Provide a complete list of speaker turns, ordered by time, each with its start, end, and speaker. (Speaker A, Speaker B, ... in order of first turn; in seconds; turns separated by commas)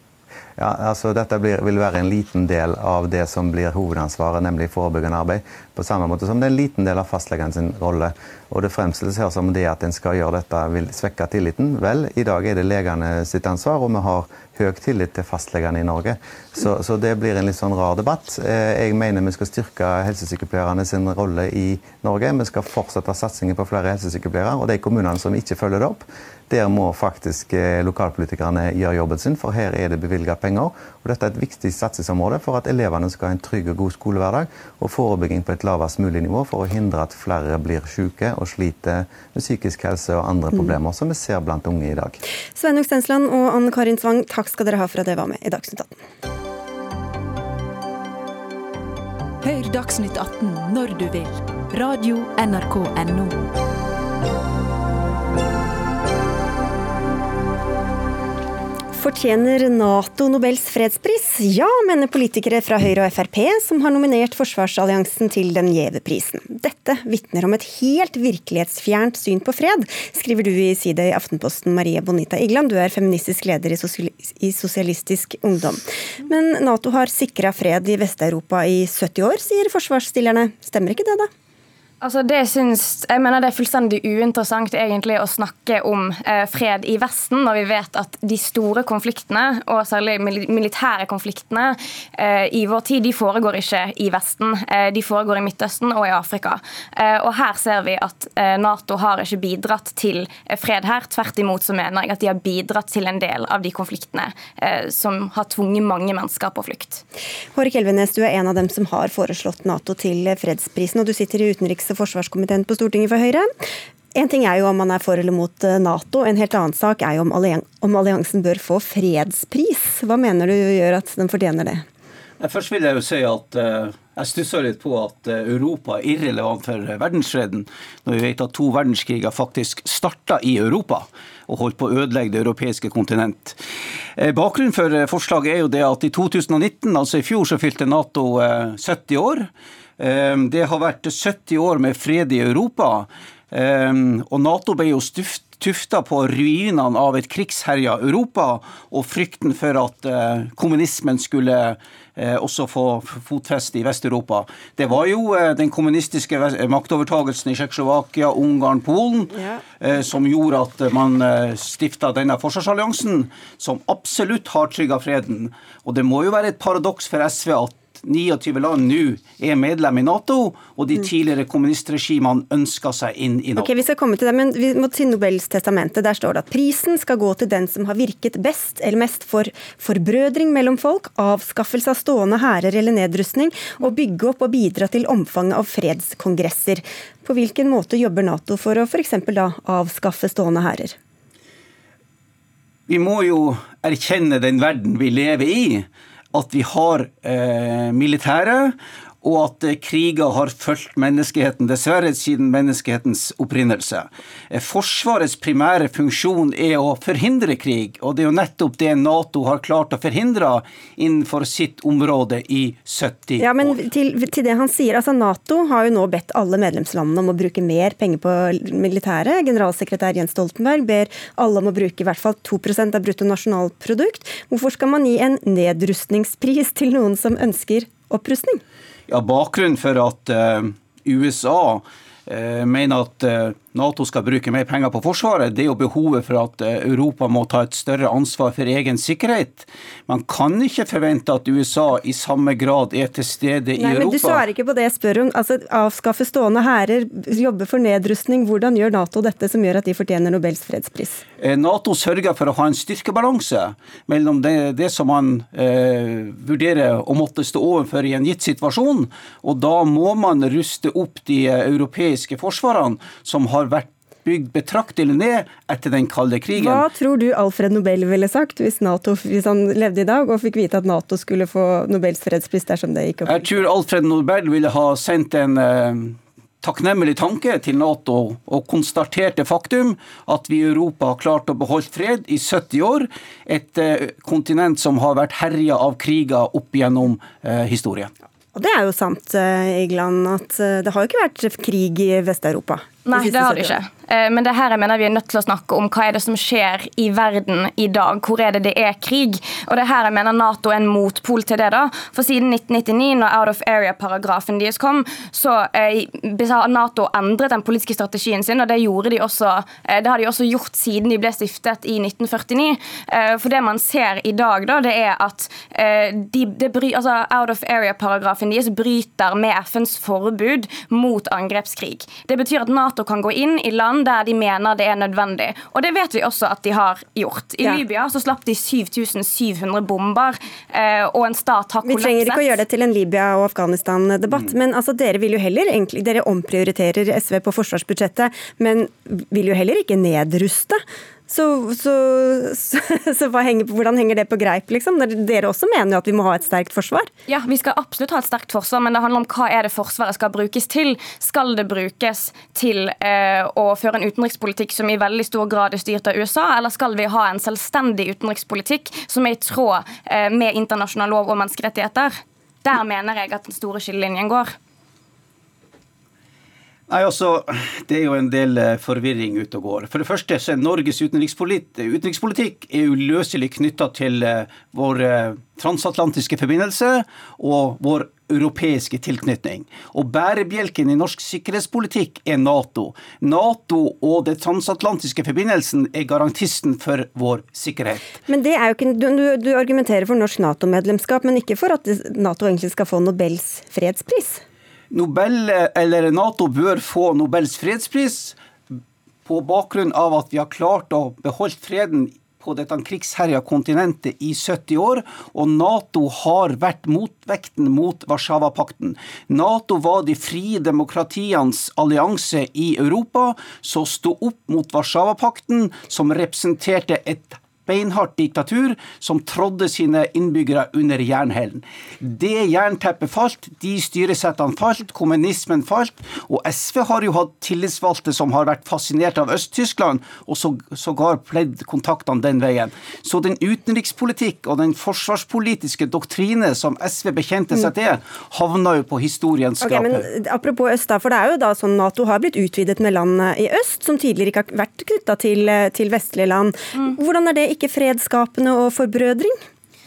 Speaker A: 0.6-42.2, Speaker B: 42.5-46.0, Speaker C: 49.4-53.5, Speaker B: 58.9-81.3, Speaker D: 82.0-107.0, Speaker B: 107.5-113.5, Speaker B: 114.1-121.8, Speaker E: 122.4-133.6, Speaker E: 134.2-173.8, Speaker B: 159.3-159.6, Speaker B: 173.6-190.9, Speaker E: 192.9-213.8, Speaker B: 213.4-228.6, Speaker E: 229.1-244.4, Speaker B: 243.8-251.2, Speaker E: 251.4-266.8, Speaker B: 266.5-273.5, Speaker E: 273.2-288.1, Speaker B: 288.5-293.8, Speaker D: 293.1-332.6, Speaker B: 331.8-347.1, Speaker D: 347.3-364.5, Speaker E: 366.9-388.0, Speaker B: 388.3-394.4, Speaker E: 394.9-398.4, Speaker E: 399.2-440.1, Speaker B: 439.6-449.4